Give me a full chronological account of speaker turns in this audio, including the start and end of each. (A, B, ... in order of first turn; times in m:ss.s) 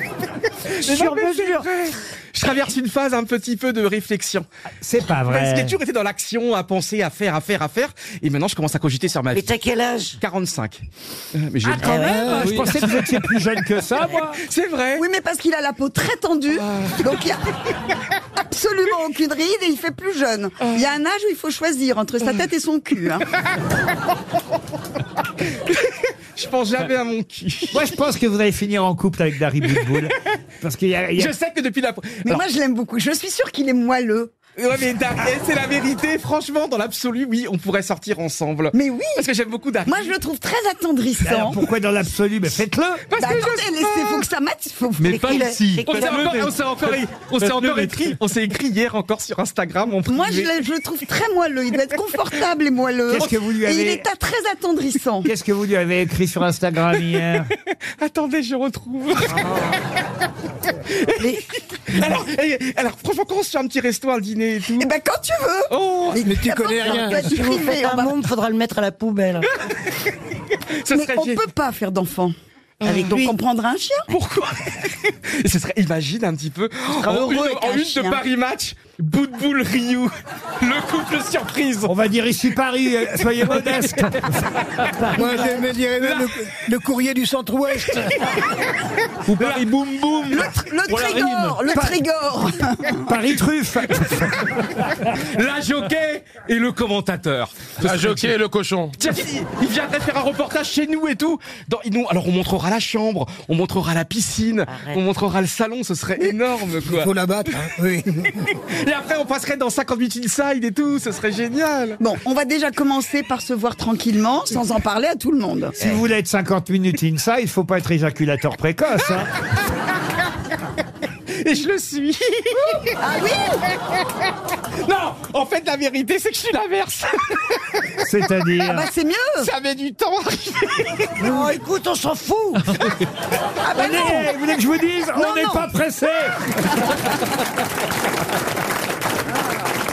0:00.8-0:01.7 A
0:00.8-0:04.4 B
0:04.8-0:05.8 C
0:05.1-0:09.6 B
0:09.3-0:10.2 A
0:10.2-0:10.8 B
0:11.4-0:12.7 B
0:11.6-0:14.4 C
0:11.8-0:13.0 A
0:14.4-0:15.0 B
0:15.0-0:17.4 D
0:16.6-0:17.0 B
0:18.4-0:23.3 D
0:25.7-0:27.9 B
0:27.7-0:31.3 C
0:29.7-0:30.1 B
0:31.2-0:32.4 B
0:32.2-0:34.3 D
0:34.6-0:40.1 B
0:38.7-0:39.2 D
0:39.8-0:41.6 D
0:41.2-0:43.0 C
0:43.1-0:44.2 B
0:43.2-0:45.5 D
0:45.0-0:46.5 A
0:45.0-0:50.5 B
0:45.4-0:45.8 C
0:46.1-0:48.0 E
0:50.1-0:55.3 D
0:53.1-0:54.0 C
0:55.2-0:57.5 C
0:58.0-0:59.8 B
0:59.4-0:59.7 A
1:00.9-1:04.9 B
1:01.2-1:01.5 A
1:04.8-1:08.2 D
1:05.7-1:06.2 B
1:06.2-1:07.3 F
1:06.9-1:09.5 A
1:10.8-1:11.4 B
1:10.9-1:12.3 D
1:12.8-1:13.1 B
1:12.8-1:13.3 A
1:13.0-1:14.0 D
1:14.1-1:21.9 B
1:17.1-1:18.1 A
1:21.8-1:24.3 C
1:25.0-1:26.3 B
1:25.1-1:28.2 F
1:27.9-1:28.2 B
1:29.2-1:31.6 B
1:30.3-1:33.2 D
1:31.7-1:32.0 C
1:33.1-1:34.4 C
1:34.9-1:38.4 B
1:37.8-1:39.0 E
1:39.0-1:47.7 B
1:44.7-1:45.0 A
1:46.9-1:48.3 F
1:48.3-1:52.0 B
1:52.0-1:55.8 D
1:55.8-1:59.3 C
2:01.3-2:02.9 B
2:03.0-2:03.6 D
2:04.8-2:08.0 B
2:08.0-2:08.9 C
2:08.6-2:09.5 D
2:09.4-2:11.3 B
2:11.2-2:12.8 A
2:13.6-2:14.3 D
2:13.7-2:16.4 C
2:15.1-2:15.7 D